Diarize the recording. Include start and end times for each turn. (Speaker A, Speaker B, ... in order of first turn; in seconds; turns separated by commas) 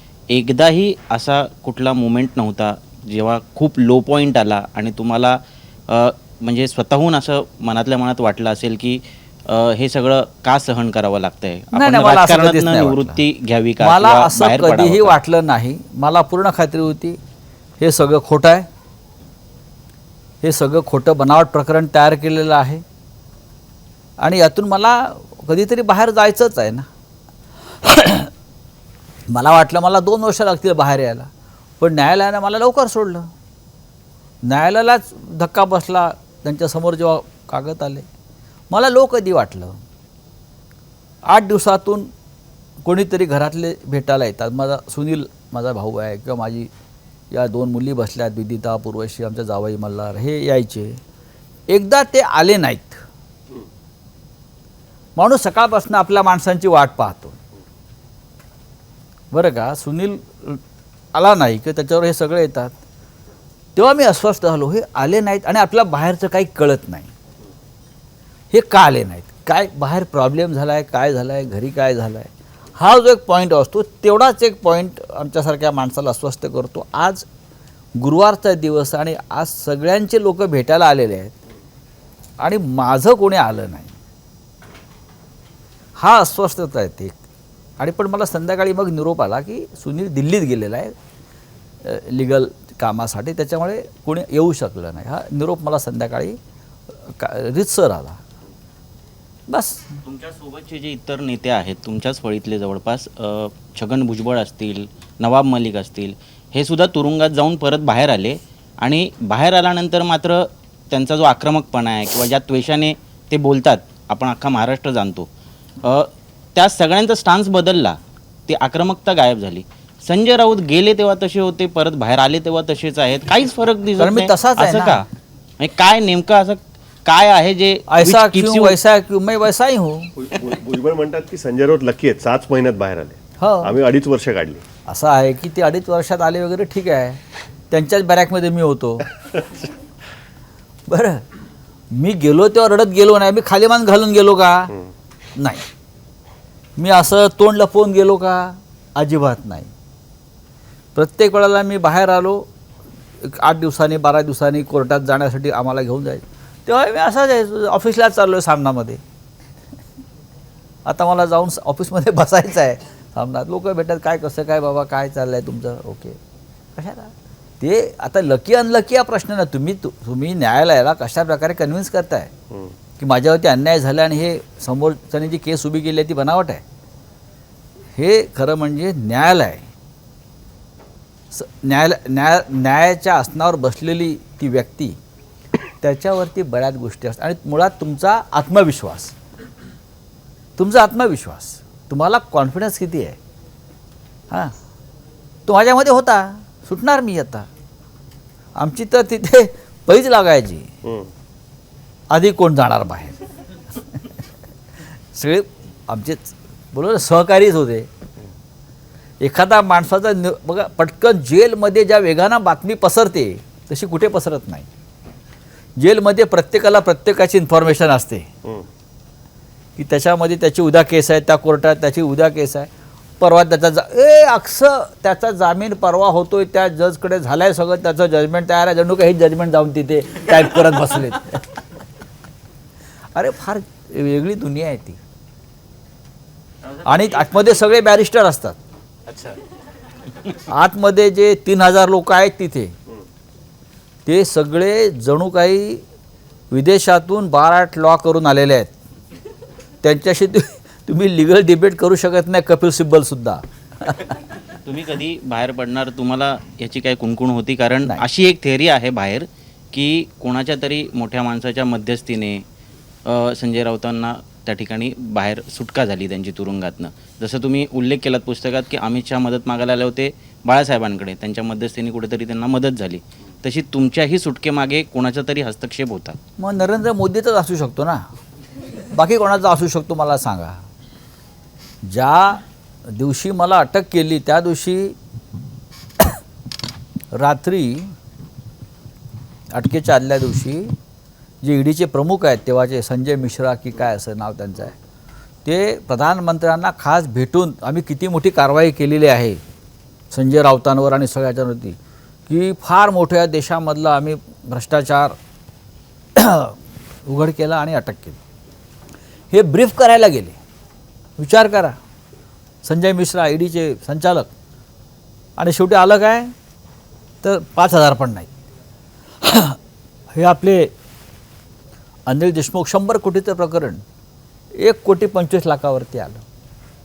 Speaker A: 0.3-5.4, Speaker A: 5.9-15.2, Speaker B: 11.7-13.2, Speaker B: 13.8-17.2, Speaker B: 17.8-18.7, Speaker B: 20.4-22.8, Speaker B: 24.2-26.9, Speaker B: 27.8-28.3, Speaker B: 29.3-31.3, Speaker B: 31.8-33.3, Speaker B: 34.4-38.1, Speaker B: 38.7-39.8, Speaker B: 41.3-42.1, Speaker B: 42.8-46.7, Speaker B: 47.3-51.0, Speaker B: 51.7-53.0, Speaker B: 55.2-57.4, Speaker B: 59.3-60.6, Speaker B: 61.1-62.8, Speaker B: 63.8-67.1, Speaker B: 68.5-77.3, Speaker B: 78.0-81.4, Speaker B: 82.4-83.9, Speaker B: 86.0-87.2, Speaker B: 87.8-90.9, Speaker B: 91.8-96.4, Speaker B: 97.0-98.2, Speaker B: 99.5-100.0, Speaker A: 100.0-115.3, Speaker A: 115.8-125.1, Speaker B: 124.0-125.1, Speaker A: 125.6-128.8, Speaker B: 127.9-130.1, Speaker C: 130.2-134.6, Speaker B: 133.4-133.8, Speaker B: 134.9-137.2, Speaker B: 137.7-139.1, Speaker B: 140.9-141.2, Speaker B: 141.9-144.8, Speaker B: 145.4-145.7, Speaker B: 146.8-149.7, Speaker B: 150.9-152.5, Speaker B: 153.2-159.0, Speaker B: 160.9-166.2, Speaker B: 166.8-172.3, Speaker B: 173.0-176.6, Speaker B: 178.0-179.7, Speaker B: 181.3-185.0, Speaker B: 185.8-189.1, Speaker B: 190.6-193.2, Speaker B: 195.5-197.5, Speaker B: 198.6-200.7, Speaker B: 202.1-203.2, Speaker B: 205.1-207.9, Speaker B: 209.2-214.7, Speaker B: 215.8-218.3, Speaker B: 219.8-222.7, Speaker B: 223.2-231.6, Speaker B: 233.1-235.0, Speaker B: 236.8-238.6, Speaker A: 239.1-239.4, Speaker B: 240.5-242.8, Speaker B: 244.1-245.8, Speaker B: 246.5-248.7, Speaker B: 249.8-254.2, Speaker A: 254.6-262.4, Speaker A: 263.1-276.2, Speaker B: 276.4-278.0, Speaker B: 278.9-280.6, Speaker B: 281.9-285.0, Speaker B: 287.1-287.9, Speaker B: 289.5-290.7, Speaker B: 291.4-294.8, Speaker B: 295.4-299.4, Speaker B: 300.1-301.8, Speaker B: 302.3-305.2, Speaker B: 306.2-308.2, Speaker B: 309.3-310.4, Speaker B: 311.2-311.8, Speaker B: 312.6-314.3, Speaker B: 315.4-316.3, Speaker B: 317.2-318.3, Speaker B: 319.2-319.6, Speaker B: 320.1-320.7, Speaker B: 322.1-323.8, Speaker B: 324.6-326.2